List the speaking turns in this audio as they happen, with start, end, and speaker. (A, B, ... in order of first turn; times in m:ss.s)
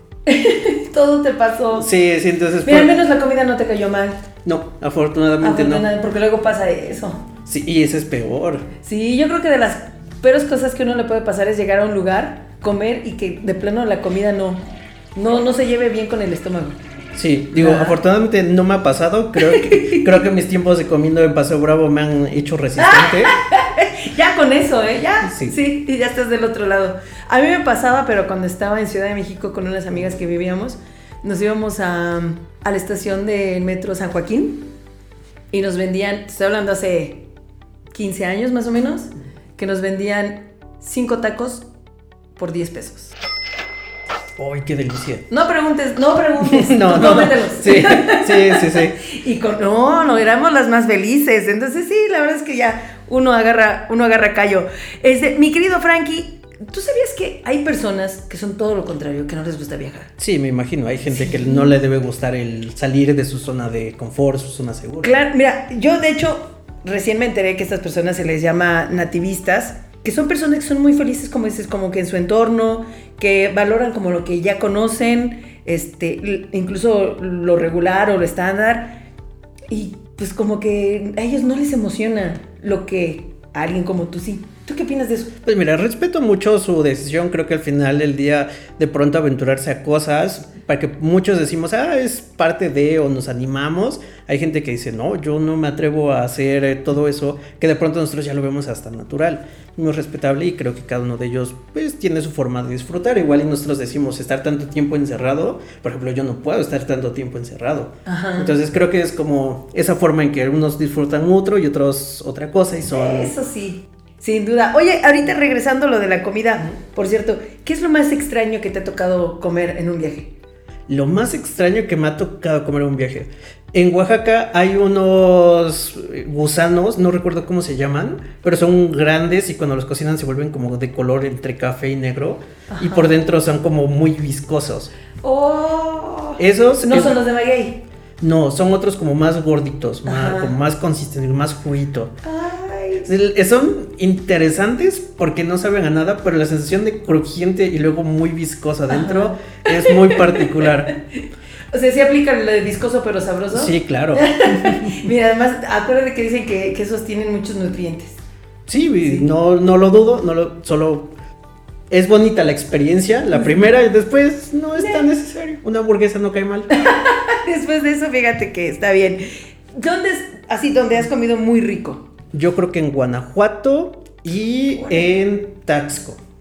0:00.3-0:01.9 A
0:01.8-0:02.9 B
0:02.6-0:04.2 A
0:04.4-0:05.9 B
0:05.4-0:07.2 A
0:07.4-0:08.6 B
0:08.8-0:16.8 A
0:17.1-0:23.3 B
0:17.6-0:18.0 A
0:19.4-0:20.1 A
0:22.8-0:34.7 A
0:25.2-0:25.6 B
0:35.5-0:37.3 A
0:37.9-0:41.7 A
0:42.4-0:43.1 A
0:44.4-0:45.2 B
0:45.3-1:00.1 A
0:46.4-0:49.0 B
1:00.2-1:05.1 B
1:01.1-1:01.7 A
1:05.0-1:19.0 A
1:19.7-1:25.3 A
1:25.4-1:53.3 B
1:48.0-1:48.5 A
1:52.8-2:00.3 A
2:00.9-2:14.9 B
2:12.7-2:13.2 A
2:15.2-2:17.8 A
2:16.4-2:17.2 B
2:18.2-2:22.2 B
2:20.0-2:20.5 A
2:22.2-2:23.1 A
2:23.0-2:30.9 B
2:28.9-2:30.9 A
2:31.7-2:38.2 A
2:33.5-2:34.8 B
2:38.7-2:41.1 B
2:39.0-2:39.3 A
2:41.9-2:46.7 B
2:43.3-2:43.7 A
2:44.8-2:45.0 A
2:46.7-2:49.2 A
2:49.8-2:52.0 A
2:52.3-2:56.2 B
2:54.7-2:55.2 A